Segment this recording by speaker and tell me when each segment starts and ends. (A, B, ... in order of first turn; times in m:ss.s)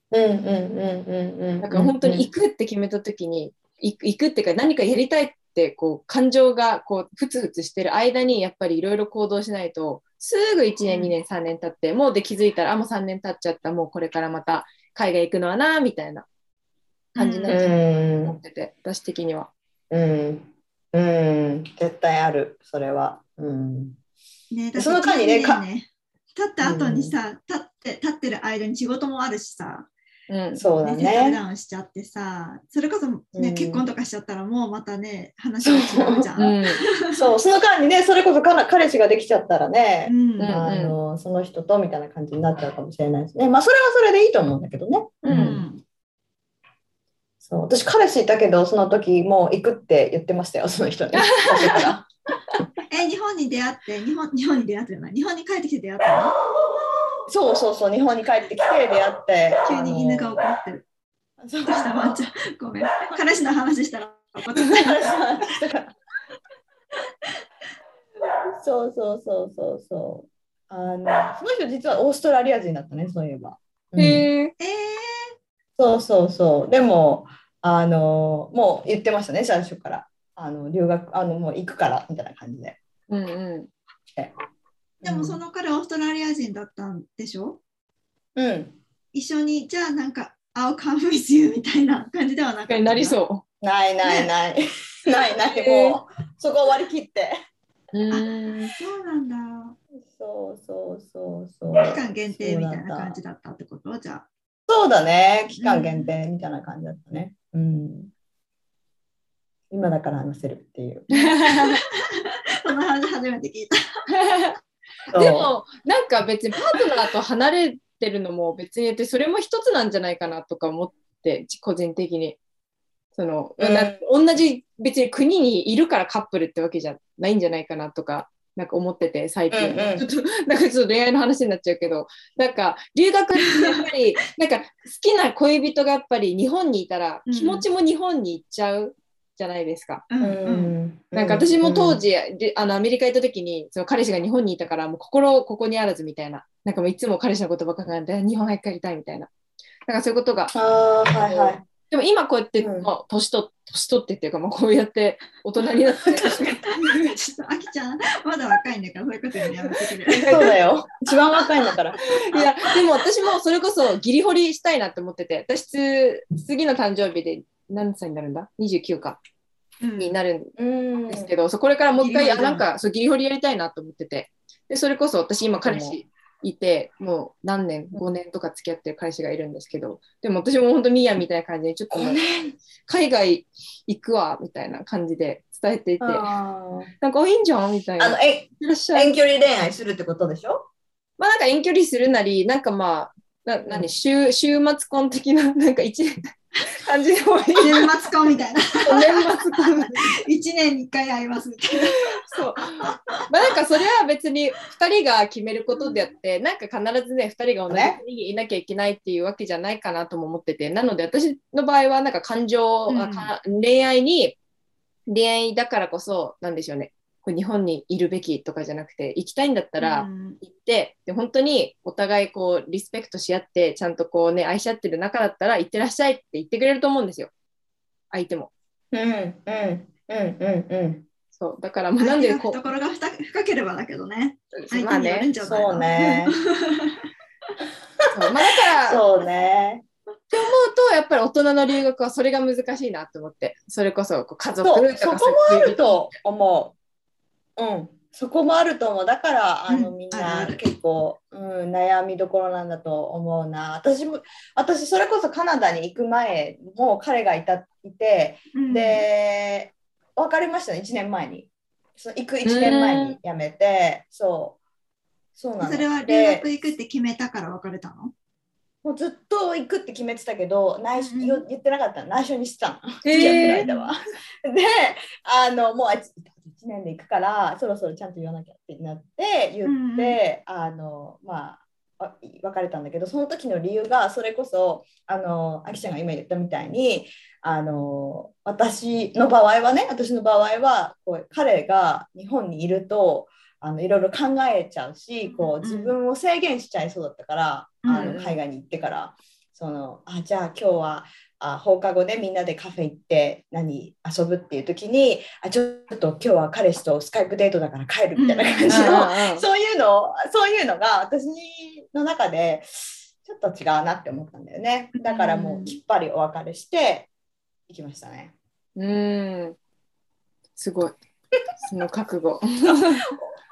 0:00.1-0:02.3 A
0:01.6-0:16.3 B
0:10.9-0:11.1 C
0:17.1-0:17.6 C
0:17.2-0:19.5 B
0:17.5-0:18.4 A
0:19.9-0:24.0 A
0:24.5-0:29.9 C
0:24.8-0:25.6 A
0:26.6-0:27.1 A
0:30.3-0:30.6 B
0:30.6-0:31.4 A
0:30.8-0:37.2 C
0:33.4-0:33.8 A
0:35.6-0:36.3 A
0:36.4-0:36.8 B
0:37.1-0:45.6 A
0:40.0-0:40.5 C
0:40.4-0:41.0 B
0:45.2-0:45.8 C
0:45.3-0:45.6 B
0:47.4-0:52.0 A
0:51.1-0:51.9 B
0:52.9-0:56.4 C
0:57.3-1:00.4 A
0:59.7-1:00.9 C
1:01.4-1:02.2 A
1:01.6-1:05.0 C
1:04.7-1:05.9 A
1:08.6-1:14.3 A
1:14.0-1:14.5 B
1:14.6-1:15.3 C
1:15.8-1:22.8 A
1:23.1-1:23.7 B
1:25.0-1:25.4 A
1:25.0-1:27.6 C
1:28.4-1:28.8 A
1:29.1-1:33.2 C
1:32.7-1:33.4 B
1:33.6-1:37.4 A
1:35.5-1:36.0 B
1:37.9-1:38.7 B
1:38.1-1:39.8 C
1:40.0-1:43.2 A
1:41.7-1:44.3 C
1:44.7-1:48.1 A
1:45.6-1:46.1 C
1:49.7-1:51.7 A
1:51.2-1:53.8 C
1:54.1-1:54.6 B
1:55.1-1:55.5 A
1:55.1-2:02.4 B
2:03.1-2:20.0 B
2:03.6-2:04.0 A
2:09.5-2:10.0 A
2:17.3-2:17.7 C
2:20.1-2:20.7 C
2:20.2-2:22.0 A
2:21.1-2:29.3 B
2:29.9-2:30.6 B
2:30.5-2:31.6 A
2:31.1-2:37.1 B
2:32.6-2:32.9 A
2:36.2-2:40.4 C
2:40.1-2:40.5 B
2:40.3-2:42.5 A
2:42.3-2:49.2 B
2:49.8-2:50.2 C
2:50.0-2:50.6 B
2:50.6-2:51.3 A
2:51.1-3:06.3 B
2:52.0-2:52.6 C
2:55.6-2:56.0 A
3:01.9-3:02.5 A
3:06.0-3:06.9 A
3:07.0-3:09.1 B
3:08.0-3:10.7 A
3:11.2-3:17.9 B
3:17.6-3:23.2 C
3:18.9-3:20.2 B
3:22.1-3:34.4 B
3:27.7-3:28.0 A
3:32.9-3:33.3 C
3:35.1-3:47.3 B
3:39.8-3:40.4 C
3:48.1-3:48.5 B
3:48.9-3:51.0 A
3:51.3-3:52.6 B
3:52.0-3:57.0 C
3:54.5-3:55.3 B
3:55.4-3:56.4 A
3:58.1-3:59.0 B
3:58.8-3:59.8 A
4:00.3-4:05.8 B
4:04.6-4:06.8 A
4:07.6-4:24.6 A
4:09.7-4:10.6 C
4:18.5-4:19.0 C
4:22.4-4:23.2 B
4:25.4-4:26.4 A
4:25.6-4:28.1 C
4:28.8-5:17.1 A
4:31.0-4:31.4 C
4:33.0-4:33.6 B
4:33.1-4:33.9 C
4:39.7-4:40.2 C
4:55.3-4:56.0 C
4:57.8-4:58.2 C
4:57.9-4:58.4 B
5:08.2-5:09.0 C
5:08.7-5:09.4 B
5:15.0-5:15.8 C
5:17.7-5:18.3 A
5:18.8-5:19.6 B
5:20.6-5:21.0 B
5:21.6-5:23.1 B
5:22.6-5:23.4 A